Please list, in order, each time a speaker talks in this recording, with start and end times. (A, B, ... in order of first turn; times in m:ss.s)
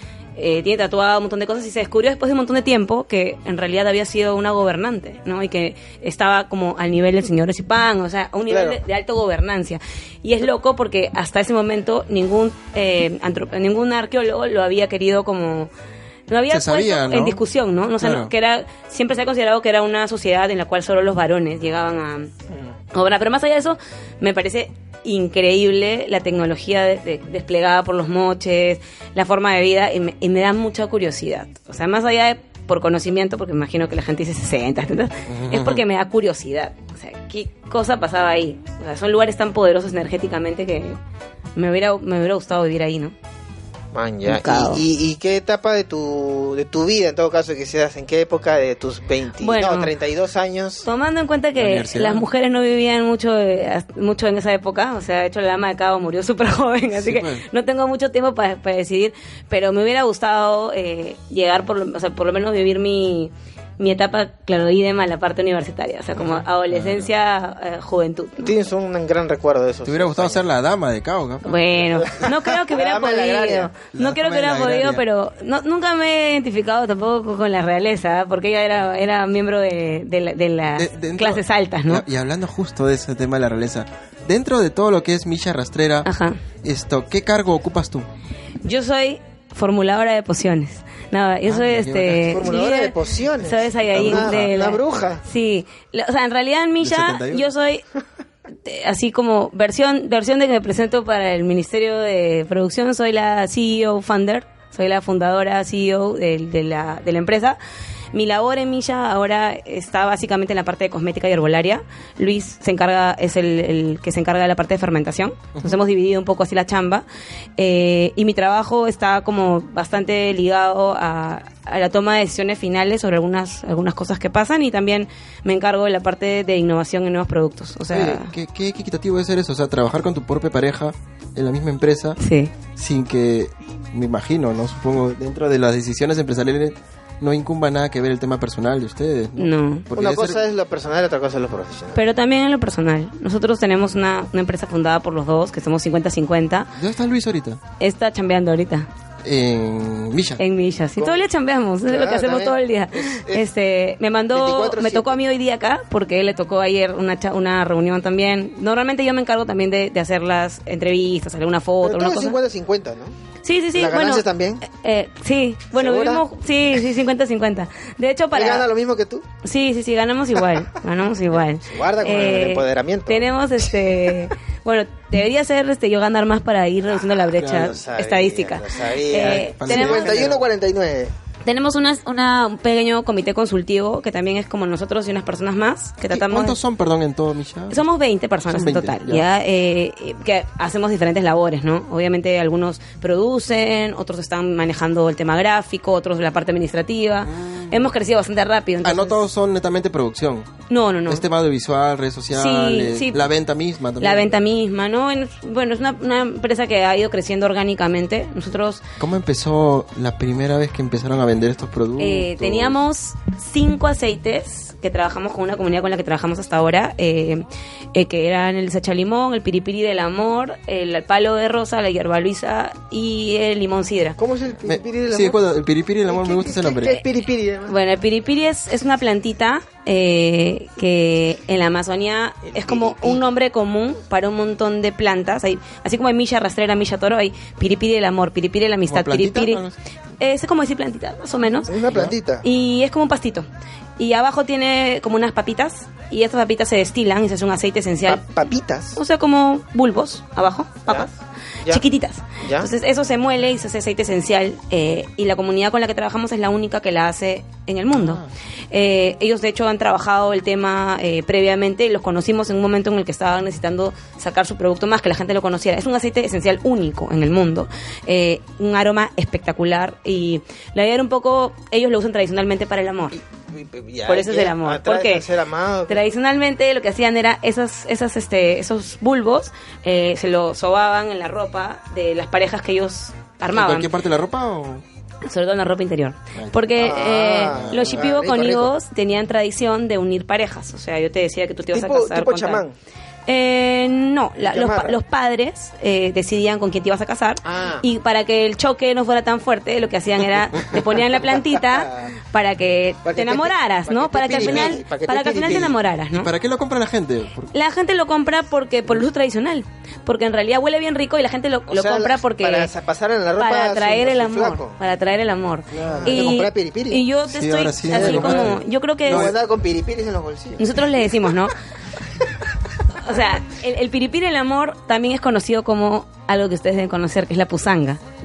0:00.4-0:15.7 A
0:08.5-0:08.8 B
0:16.3-0:22.3 A
0:16.5-0:17.4 C
0:18.0-0:18.3 C
0:22.9-0:41.0 A
0:35.3-0:35.8 C
0:41.6-0:43.1 A
0:43.9-0:50.8 B
0:44.2-0:44.8 A
0:49.4-0:49.9 A
0:50.8-1:08.5 A
0:51.6-0:52.3 C
0:56.9-0:57.4 C
1:06.7-1:07.1 C
1:08.4-1:10.4 B
1:09.8-1:11.6 C
1:11.4-1:22.0 A
1:12.0-1:13.7 B
1:13.9-1:15.0 C
1:20.8-1:26.1 C
1:26.0-1:26.4 A
1:26.6-1:28.1 C
1:28.6-1:37.8 A
1:31.4-1:32.4 C
1:32.2-1:35.2 B
1:33.9-1:34.6 C
1:36.8-1:37.5 C
1:38.6-1:47.6 A
1:48.1-1:57.0 A
1:57.6-2:08.3 A
2:07.9-2:12.2 C
2:12.2-2:12.5 A
2:12.8-2:20.4 C
2:19.4-2:19.9 A
2:19.9-2:22.0 B
2:21.9-2:26.7 A
2:26.8-2:27.6 C
2:27.8-2:28.9 A
2:29.2-2:30.4 C
2:30.4-2:42.4 A
2:31.0-2:31.2 B
2:31.8-2:33.4 B
2:34.3-2:35.2 B
2:41.8-2:43.1 B
2:43.4-2:48.6 A
2:43.7-2:44.6 B
2:45.7-2:46.2 B
2:48.3-2:49.2 B
2:49.4-3:00.3 A
2:51.6-2:53.3 B
2:57.0-3:01.1 B
2:57.4-2:57.8 C
2:59.2-3:00.4 C
3:01.4-3:06.6 A
3:06.1-3:07.8 C
3:07.7-3:19.2 A
3:08.5-3:09.2 C
3:17.2-3:17.9 C
3:18.8-3:20.5 C
3:20.7-3:21.2 A
3:21.1-3:24.4 C
3:22.3-3:23.2 A
3:24.0-3:28.8 A
3:29.0-3:32.8 C
3:32.0-3:44.2 A
3:44.2-3:45.4 B
3:44.6-3:47.0 C
3:46.0-3:47.8 B
3:47.7-3:59.6 A
3:52.4-3:53.2 B
3:58.8-3:59.8 C
4:00.2-4:01.7 A
4:01.7-4:02.4 B
4:02.4-4:03.5 A
4:04.0-4:08.2 A
4:08.1-4:09.0 B
4:08.9-4:11.1 A
4:11.7-4:33.2 A
4:12.4-4:12.7 B
4:17.9-4:18.3 C
4:33.4-4:36.0 B
4:34.0-4:35.2 A
4:35.9-4:43.9 A
4:43.5-4:44.8 C
4:45.2-4:52.6 A
4:46.3-4:46.8 C
4:46.8-4:48.7 B
4:47.5-4:48.1 C
4:51.7-4:52.7 B
4:53.2-5:06.3 A
4:54.4-4:54.9 B
4:57.4-4:57.8 B
5:01.5-5:02.1 B
5:03.0-5:05.8 B
5:04.3-5:04.8 C
5:05.5-5:07.5 C
5:07.5-5:12.7 A
5:11.7-5:14.8 B
5:13.4-5:19.3 A
5:15.7-5:16.4 C
5:15.9-5:17.0 B
5:17.3-5:19.4 C
5:17.9-5:21.3 B
5:20.6-5:21.5 A
5:22.9-5:28.0 A